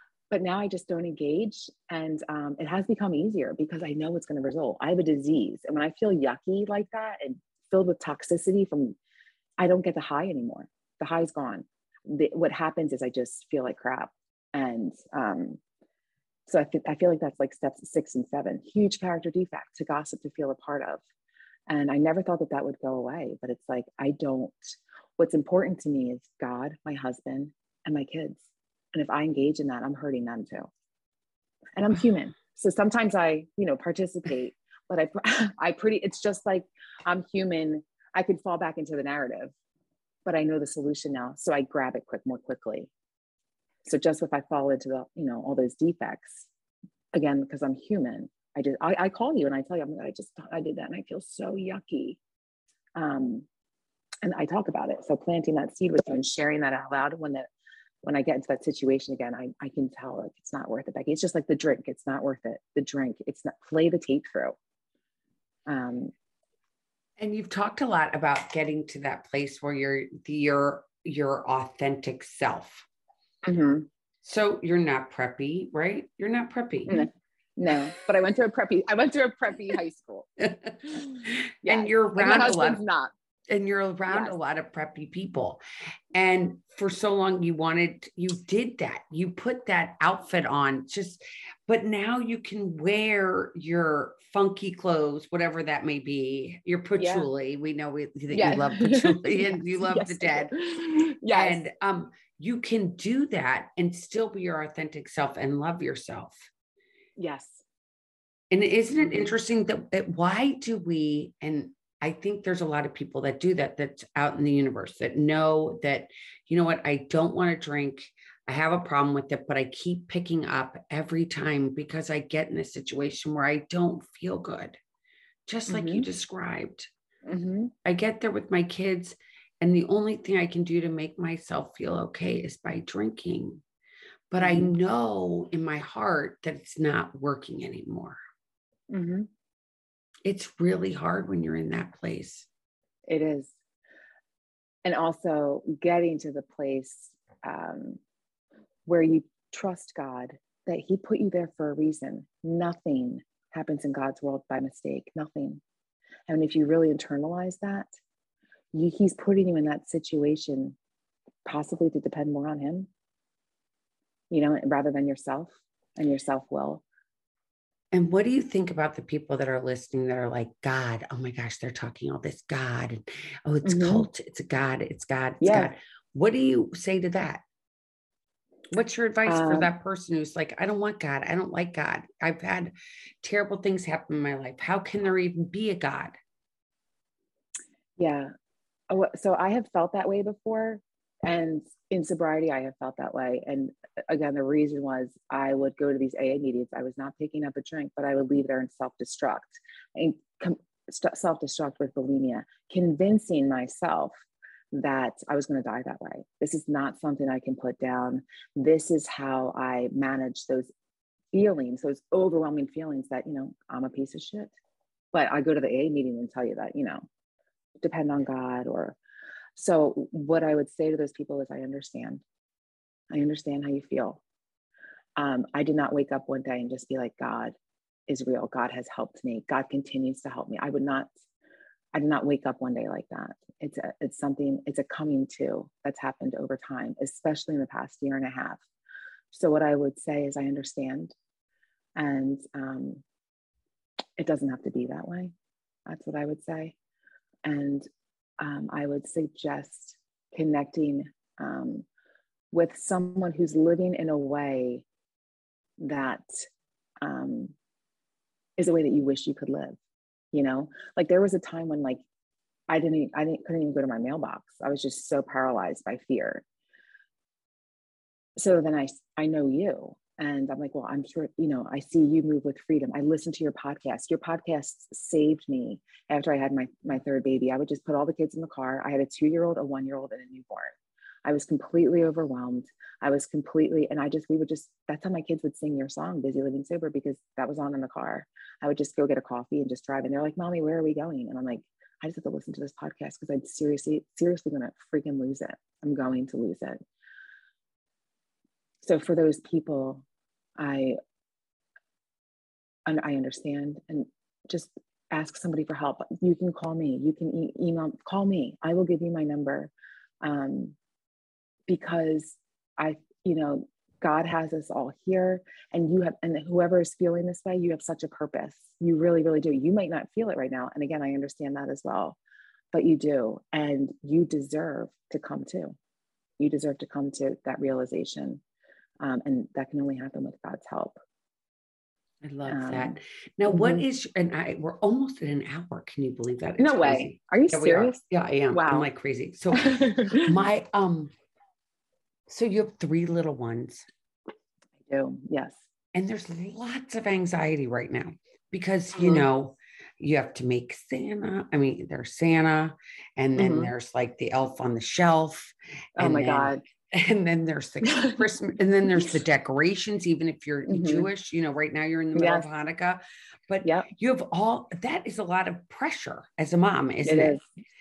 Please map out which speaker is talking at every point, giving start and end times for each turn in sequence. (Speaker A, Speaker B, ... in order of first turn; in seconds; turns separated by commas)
Speaker A: 0.3-9.0, Speaker A: 9.6-15.6, Speaker A: 16.5-21.0, Speaker A: 21.7-28.4, Speaker A: 28.9-30.7, Speaker A: 31.8-39.5, Speaker A: 40.2-42.9, Speaker A: 43.9-46.5, Speaker A: 47.1-52.2, Speaker A: 53.0-53.5, Speaker A: 54.2-57.5, Speaker A: 58.0-64.6, Speaker A: 65.7-66.1, Speaker B: 67.2-72.9, Speaker A: 73.4-73.9, Speaker B: 74.2-77.0, Speaker A: 76.9-80.3, Speaker B: 80.4-82.8, Speaker A: 81.7-83.1, Speaker B: 83.5-85.6, Speaker A: 84.1-84.3, Speaker B: 86.1-100.5, Speaker A: 97.0-97.3, Speaker A: 98.3-101.7, Speaker B: 101.3-106.5, Speaker A: 107.2-107.6, Speaker B: 108.5-124.8, Speaker A: 109.0-109.3, Speaker B: 125.5-126.9, Speaker A: 125.7-126.1, Speaker A: 127.3-127.7, Speaker B: 127.8-133.6, Speaker B: 134.3-138.2, Speaker A: 134.4-134.8, Speaker A: 138.9-139.3, Speaker B: 140.2-142.5, Speaker A: 143.1-143.5, Speaker A: 144.8-148.0, Speaker A: 148.9-155.6, Speaker A: 156.3-157.9, Speaker A: 158.7-160.8, Speaker A: 161.4-162.9, Speaker A: 164.3-166.8, Speaker B: 167.9-177.4, Speaker A: 173.6-174.1, Speaker A: 175.4-175.7, Speaker B: 178.7-186.2, Speaker A: 179.3-179.7, Speaker A: 188.0-188.3, Speaker A: 188.9-204.2, Speaker A: 204.7-210.7, Speaker A: 211.3-214.5, Speaker A: 215.1-217.1, Speaker A: 217.8-219.0, Speaker A: 219.6-222.2, Speaker A: 223.1-224.2, Speaker A: 225.2-227.5, Speaker A: 228.1-231.1, Speaker A: 231.9-238.6, Speaker A: 239.3-241.1, Speaker A: 242.0-243.0, Speaker A: 244.2-245.3, Speaker A: 245.9-246.8, Speaker A: 247.4-247.9, Speaker A: 248.4-251.8, Speaker A: 252.5-254.8, Speaker A: 255.8-256.5, Speaker A: 257.0-257.5, Speaker A: 258.6-259.8, Speaker A: 260.3-262.0, Speaker A: 262.7-266.4, Speaker A: 268.4-296.8, Speaker A: 298.8-300.0, Speaker A: 300.6-301.0, Speaker A: 302.9-310.8, Speaker A: 311.7-322.2, Speaker A: 322.7-325.8, Speaker A: 326.4-328.4, Speaker A: 329.0-331.0, Speaker B: 332.2-341.1, Speaker A: 332.5-333.0, Speaker A: 333.5-333.8, Speaker A: 336.6-338.0, Speaker A: 338.5-338.9, Speaker A: 339.6-340.3, Speaker B: 342.3-343.9, Speaker A: 344.9-345.6, Speaker B: 345.9-367.4, Speaker A: 348.9-349.2, Speaker A: 353.4-353.7, Speaker A: 356.0-356.6, Speaker A: 357.8-358.2, Speaker A: 360.7-361.1, Speaker A: 362.1-362.5, Speaker A: 367.0-367.5